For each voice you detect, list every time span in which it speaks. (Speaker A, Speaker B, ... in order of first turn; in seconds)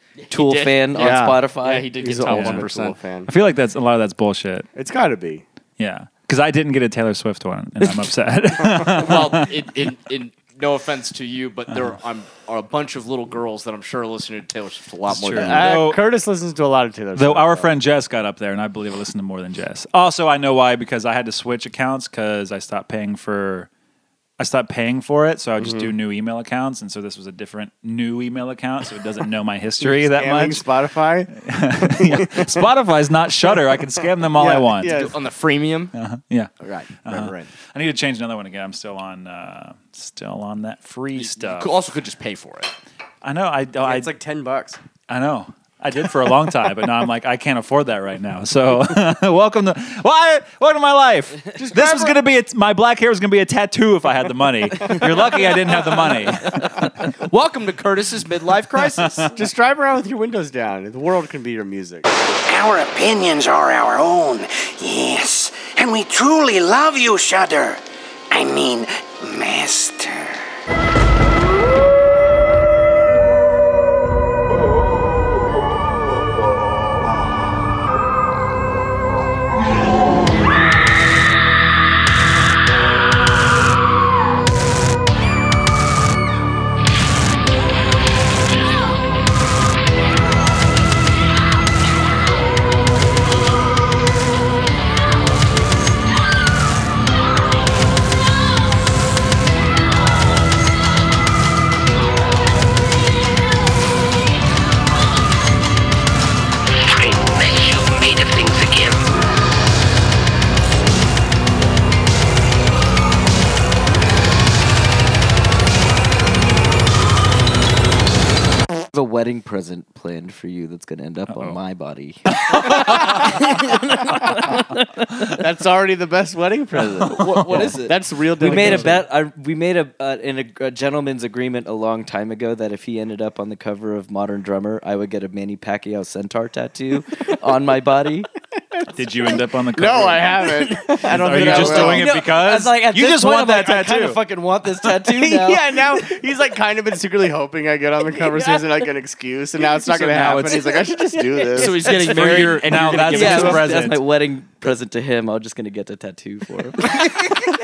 Speaker A: 0.2-3.0, 8.7-15.9, 34.8-35.9, 36.7-37.5, 41.2-42.7, 57.1-59.3, 127.1-128.0, 128.6-128.9, 151.6-153.7
Speaker B: 0.3-1.9, 118.9-124.8, 128.4-138.3, 140.4-145.9, 150.8-151.6, 153.1-157.5
Speaker C: 0.9-1.4, 2.0-3.3, 4.8-5.5, 15.3-17.7, 25.6-25.9, 29.8-32.7, 33.5-35.2, 43.8-44.8, 51.5-52.2, 59.3-62.1, 122.8-123.3, 124.3-124.6, 125.2-129.0, 138.8-142.1, 145.2-151.9
Speaker D: 2.3-2.6, 3.3-4.7, 5.8-9.6, 15.1-16.0, 17.2-23.7, 24.4-30.6, 31.3-34.9, 35.9-36.5, 37.1-41.7, 43.2-44.1, 45.1-57.1, 58.9-59.3, 122.5-123.2, 127.0-127.7, 128.6-128.8, 138.9-140.6, 141.1-144.2, 149.9-150.6, 151.9-154.0
Speaker E: 62.3-70.4
Speaker F: 106.8-109.1